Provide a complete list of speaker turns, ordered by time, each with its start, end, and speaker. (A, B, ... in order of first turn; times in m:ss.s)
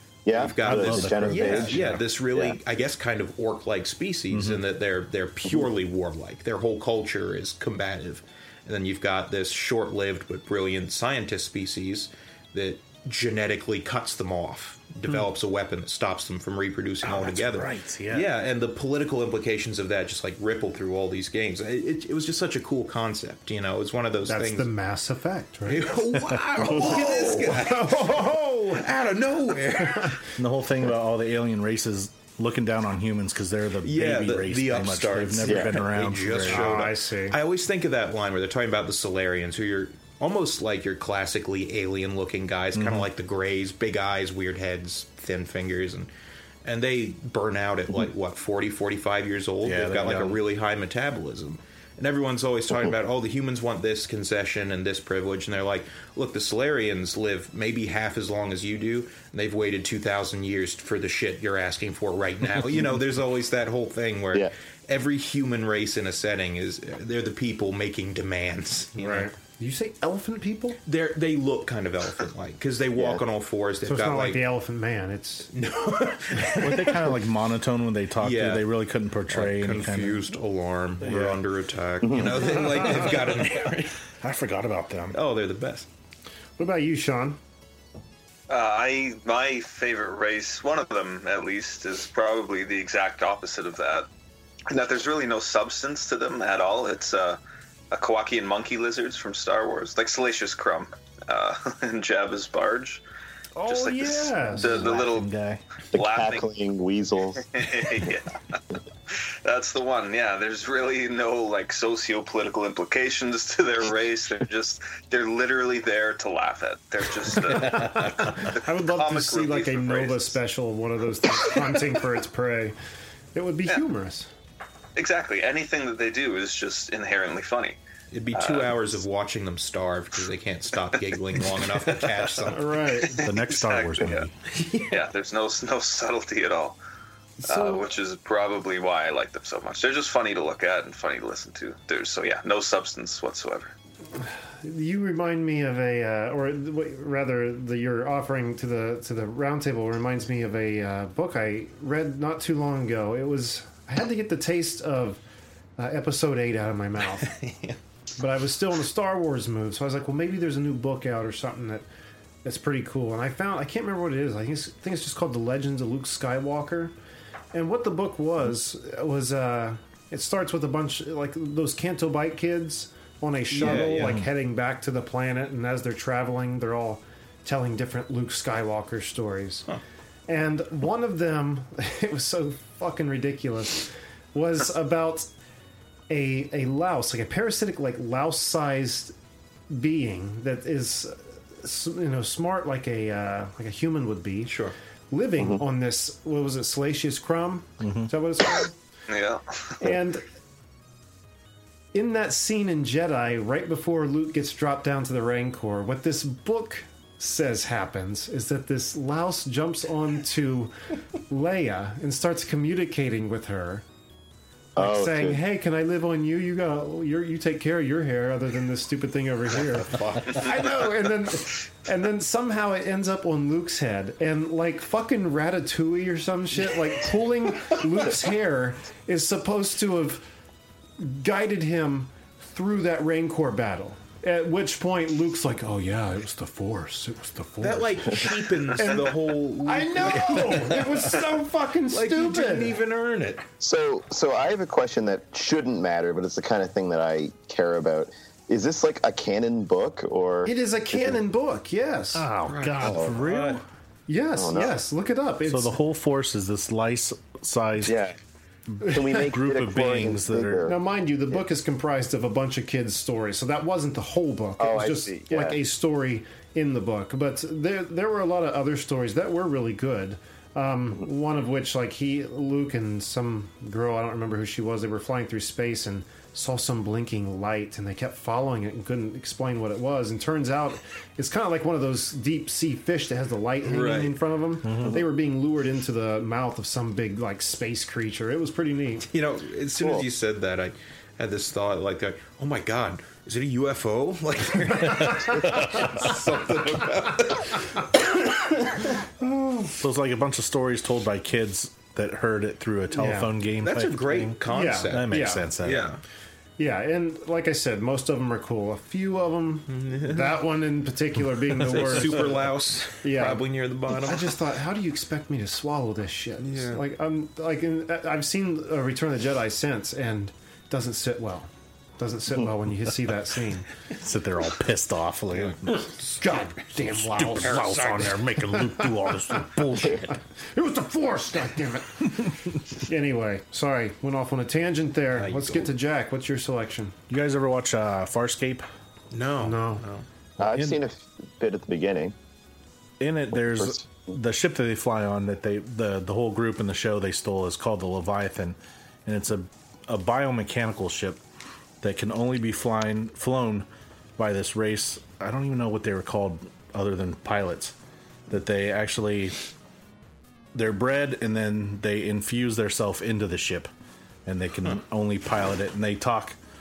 0:00.3-0:02.6 A
0:00.3-0:24.7 B
0:00.6-0:02.0 C
0:04.3-0:04.6 C
0:17.0-0:18.3 C
0:24.3-0:25.9 D
0:25.7-0:30.3 B
0:26.2-0:26.8 C
0:26.8-0:28.9 D
0:29.8-0:30.2 D
0:30.4-0:36.9 C
0:33.8-0:46.1 B
0:35.5-0:35.8 A
0:36.5-0:37.4 D
0:42.7-0:43.1 C
0:46.6-1:09.3 B
0:49.6-0:50.4 C
1:09.0-1:10.8 D
1:10.9-1:14.4 B
1:13.0-1:13.2 A
1:13.8-1:15.5 D
1:15.5-1:17.1 B
1:16.4-1:20.2 C
1:18.2-1:18.6 B
1:19.3-1:24.0 B
1:21.0-1:21.4 C
1:22.0-1:22.5 A
1:23.0-1:23.6 C
1:24.2-1:25.2 C
1:25.1-1:25.9 B
1:26.6-1:27.4 D
1:28.5-1:34.1 E
1:34.7-1:37.4 E
1:37.9-1:43.0 E
1:43.6-1:45.1 D
1:43.6-1:45.3 E
1:44.5-1:45.6 C
1:45.9-1:46.4 E
1:45.9-1:47.5 A
1:47.4-2:00.4 E
1:57.5-2:02.8 D
2:03.4-2:04.3 D
2:05.0-2:07.8 E
2:08.1-2:12.8 B
2:08.3-2:08.8 E
2:12.5-2:13.2 D
2:13.0-2:14.3 E
2:13.2-2:14.3 C
2:14.8-2:16.8 E
2:17.4-2:17.9 D
2:17.4-2:23.7 E
2:24.6-2:35.2 D
2:35.8-2:37.3 D
2:37.2-2:37.8 B
2:38.2-2:41.8 D
2:42.4-2:46.9 D
2:47.5-2:59.7 D
2:53.5-2:54.2 B
2:53.6-2:54.3 C
3:00.3-3:05.3 D
3:06.1-3:09.1 D
3:09.7-3:14.5 D
3:14.5-3:14.8 B
3:15.1-3:18.8 D
3:17.8-3:18.1 C
3:19.1-3:19.8 E
3:19.8-3:20.2 D
3:21.9-3:30.7 D
3:31.3-3:33.8 D
3:34.8-3:35.4 A
3:34.8-3:50.2 D
3:39.7-3:40.5 B
3:51.0-4:02.8 D
3:57.6-4:01.2 B
4:01.9-4:03.4 B
4:03.6-4:11.2 A
4:10.4-4:12.3 D
4:12.2-4:13.6 C
4:12.5-4:13.6 B
4:12.8-4:13.2 A
4:14.1-4:15.8 D
4:14.4-4:14.8 A
4:15.5-4:18.1 C
4:17.8-4:18.2 A
4:18.7-4:20.7 C
4:18.8-4:20.8 A
4:18.8-4:19.2 D
4:20.7-4:49.1 D
4:24.6-4:25.6 A
4:43.6-4:44.2 B
4:44.6-4:45.0 C
4:49.1-4:58.0 B
4:49.8-4:50.1 A
4:54.9-4:55.2 D
4:55.5-4:55.9 C
4:59.2-4:59.8 D
4:59.8-5:05.9 C
5:02.9-5:03.3 D
5:03.6-5:06.0 B
5:04.5-5:05.5 D
5:06.6-5:12.3 D
5:09.7-5:10.4 B
5:11.6-5:14.4 B
5:13.0-5:13.5 D
5:14.0-5:23.7 D
5:16.4-5:16.8 B
5:23.9-5:25.9 C
5:25.3-5:26.4 B
5:26.2-5:37.0 D
5:26.9-5:30.2 C
5:27.2-5:28.2 B
5:35.1-5:35.7 B
5:37.1-5:38.6 C
5:39.1-5:40.0 B
5:39.4-5:39.8 D
5:40.4-5:42.2 A
5:40.4-5:40.8 C
5:43.0-5:51.2 C
5:43.5-5:43.9 A
5:51.8-5:57.8 C
5:58.3-5:59.4 C
6:00.5-6:03.7 C
6:04.3-6:06.4 C